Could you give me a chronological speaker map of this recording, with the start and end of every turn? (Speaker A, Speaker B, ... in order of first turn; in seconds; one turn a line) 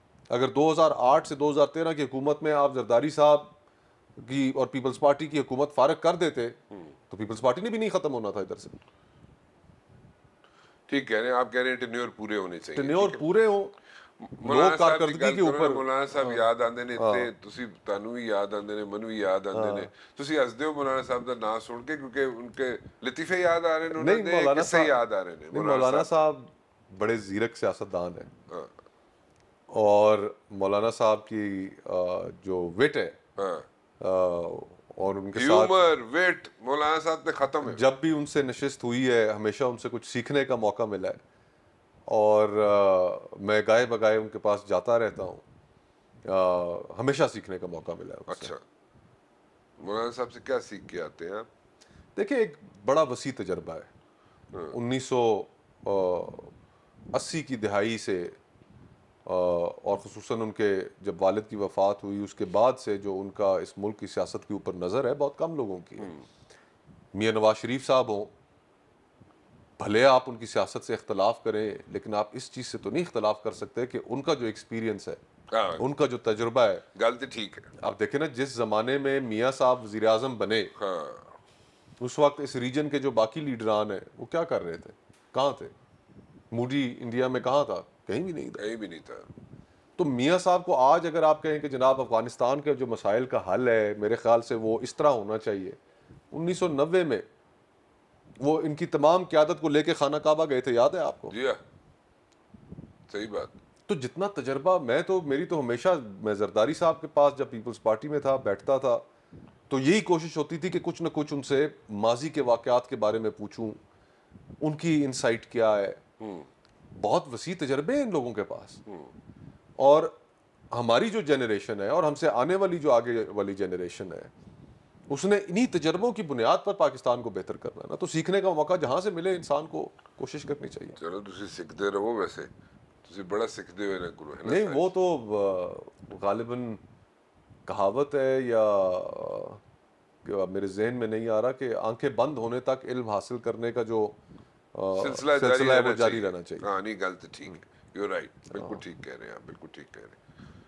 Speaker A: 0.3-3.5
Speaker A: 4.2-6.6
Speaker A: 7.1-8.8
Speaker B: 10.9-13.2
Speaker A: 12.7-13.7
Speaker B: 14.2-26.2
Speaker A: 14.4-16.4
Speaker A: 17.0-17.3
Speaker A: 19.5-19.9
Speaker A: 23.9-25.0
Speaker A: 25.5-28.3
Speaker A: 29.7-33.2
Speaker B: 33.4-33.6
Speaker A: 34.0-35.7
Speaker B: 35.3-37.8
Speaker A: 37.6-41.2
Speaker A: 42.1-45.4
Speaker A: 46.2-48.5
Speaker B: 48.3-48.6
Speaker B: 49.8-51.5
Speaker A: 52.1-53.9
Speaker A: 54.7-56.5
Speaker A: 57.1-58.4
Speaker A: 59.2-66.1
Speaker A: 67.1-68.3
Speaker A: 69.8-75.2
Speaker B: 75.5-75.8
Speaker A: 75.8-76.8
Speaker B: 77.0-77.7
Speaker A: 77.8-80.7
Speaker B: 80.8-81.3
Speaker A: 82.0-85.7
Speaker A: 86.5-88.6
Speaker B: 88.6-89.3
Speaker A: 90.0-95.8
Speaker A: 96.3-97.2
Speaker A: 98.4-101.3
Speaker B: 101.3-101.6
Speaker B: 103.1-103.5
Speaker A: 103.9-109.0
Speaker A: 109.7-113.8
Speaker A: 114.6-116.0
Speaker B: 116.2-116.5
Speaker A: 116.9-118.8
Speaker A: 119.8-120.1
Speaker A: 120.7-124.3
Speaker A: 125.1-131.0
Speaker B: 131.0-132.5
Speaker B: 133.0-134.9
Speaker A: 134.4-136.8
Speaker A: 137.7-139.6
Speaker A: 140.2-144.2
Speaker A: 144.7-146.7
Speaker B: 144.9-150.2
Speaker A: 148.5-148.8